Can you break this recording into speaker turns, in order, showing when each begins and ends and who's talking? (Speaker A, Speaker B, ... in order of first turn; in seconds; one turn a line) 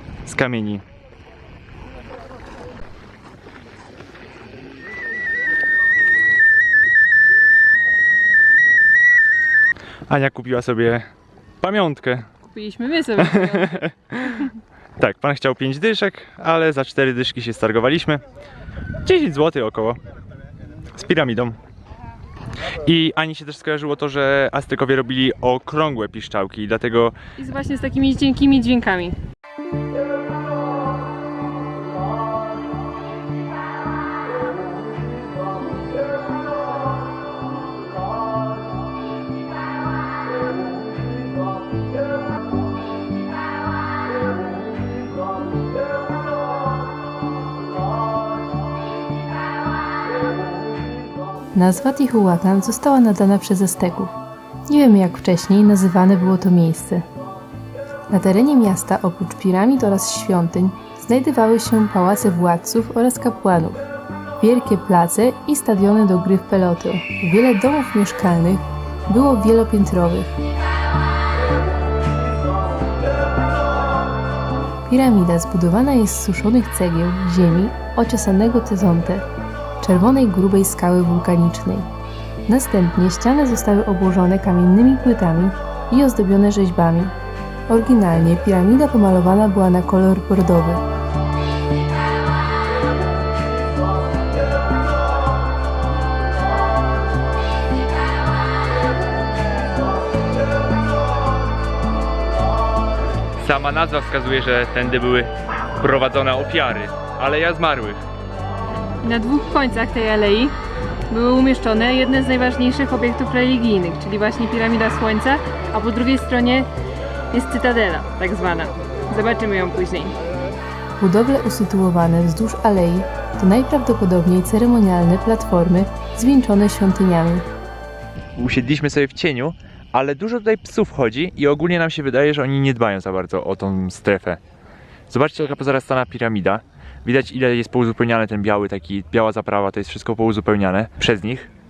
Speaker A: 0.2-0.8
Speaker A: 10.1-11.1
Speaker A: 11.6-12.2
Speaker B: 12.4-13.8
Speaker A: 13.2-14.5
Speaker A: 15.0-18.2
Speaker A: 19.0-20.0
Speaker A: 20.9-21.6
Speaker A: 22.8-27.1
Speaker B: 27.4-29.2
Speaker C: 51.5-54.1
Speaker C: 54.7-57.0
Speaker C: 58.1-63.9
Speaker C: 64.4-70.4
Speaker C: 74.9-79.3
Speaker C: 79.8-81.9
Speaker C: 82.5-87.1
Speaker C: 87.7-90.8
Speaker A: 103.4-108.0
Speaker B: 109.0-110.5
Speaker B: 111.1-116.7
Speaker B: 117.3-120.1
Speaker C: 121.0-127.5
Speaker A: 128.3-134.4
Speaker A: 135.1-141.5